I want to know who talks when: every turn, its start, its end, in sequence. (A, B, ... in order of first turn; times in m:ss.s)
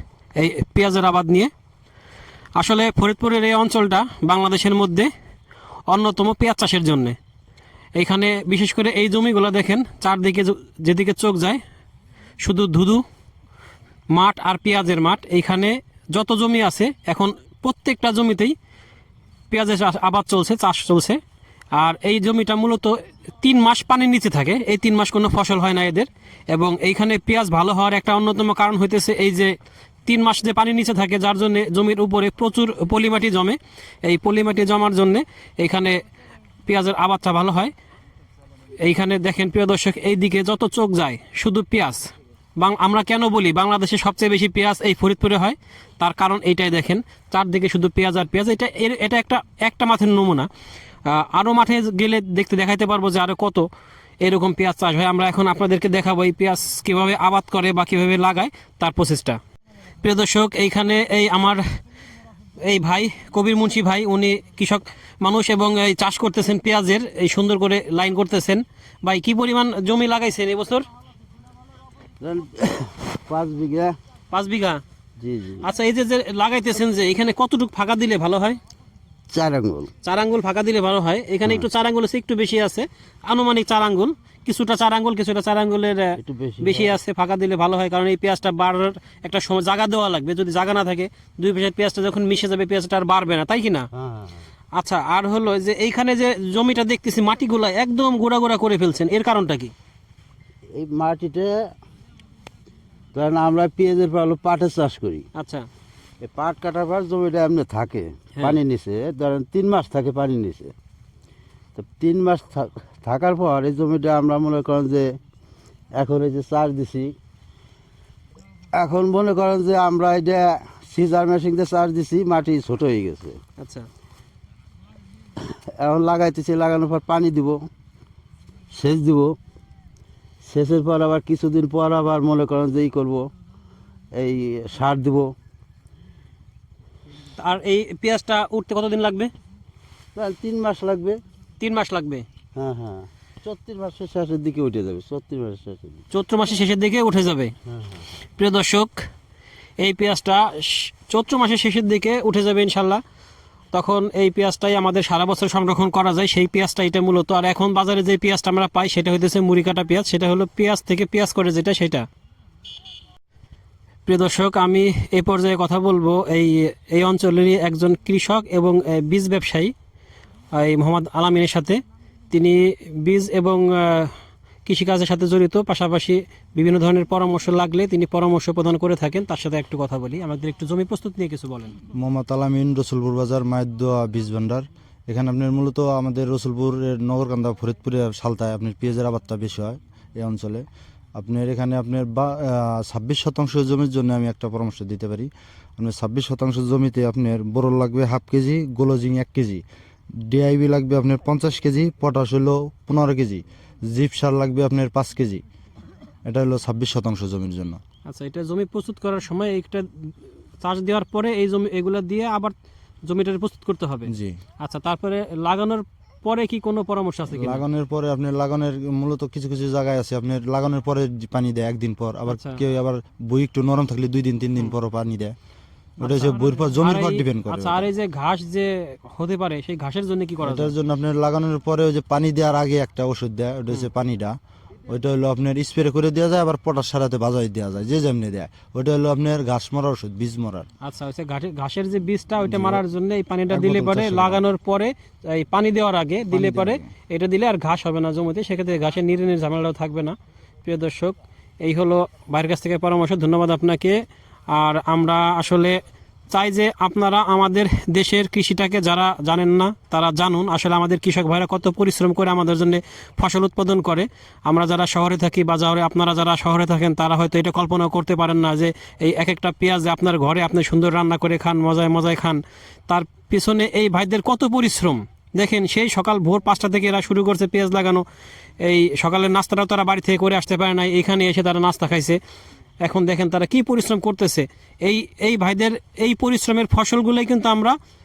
0:00.4-0:01.5 A
0:02.6-0:05.1 A
0:05.9-0:07.2 A
0:08.0-0:11.6 A
0:12.4-0:13.0 A
0:14.1-0:18.5 A
0:19.5-0:21.2 A
0:21.8-0:29.5 A
0:30.0-0:36.0 A
0:36.6-0:37.7 A
0:38.8-0:50.5 A
0:51.0-0:53.7 A
0:54.2-0:59.4 A
1:00.0-1:01.6 A
1:02.6-1:10.8 A
1:12.2-1:13.9 B
1:14.3-1:14.8 A
1:15.2-1:15.6 B
1:15.6-1:18.6 A
1:19.3-1:19.9 B
1:20.0-1:33.8 A
1:26.2-1:26.9 B
1:34.8-1:39.7 A
1:40.8-1:41.5 B
1:43.1-1:45.2 B
1:45.3-1:45.6 A
1:46.2-1:50.7 B
1:51.8-1:55.0 B
1:56.0-1:57.1 B
1:58.8-2:03.3 B
2:03.6-2:03.9 A
2:05.8-2:07.6 B
2:08.8-2:09.3 B
2:10.5-2:13.2 B
2:14.2-2:15.3 B
2:17.4-2:19.3 A
2:20.2-2:21.2 B
2:21.6-2:22.2 A
2:22.6-2:26.0 B
2:26.1-2:27.5 A
2:28.4-2:29.1 A
2:29.8-2:33.0 A
2:33.7-2:42.0 A
2:44.0-2:49.7 A
2:50.5-2:54.1 A
2:54.6-3:01.7 A
3:01.9-3:10.6 C
3:11.2-3:19.6 C
3:20.2-3:25.4 C
3:26.3-3:27.8 C
3:28.1-3:30.1 A
3:30.6-3:32.5 A
3:33.1-3:37.6 A
3:34.1-3:34.4 C
3:37.3-3:45.4 C
3:42.3-3:42.6 A
3:46.0-3:47.9 C
3:46.0-3:50.7 A
3:50.4-3:54.4 C
3:54.9-4:00.6 C
4:00.8-4:15.8 A
4:02.4-4:02.8 C
4:03.5-4:04.4 C
4:06.3-4:06.9 C
4:16.3-4:38.0 A
4:38.6-4:42.2 A
4:42.8-4:47.8 A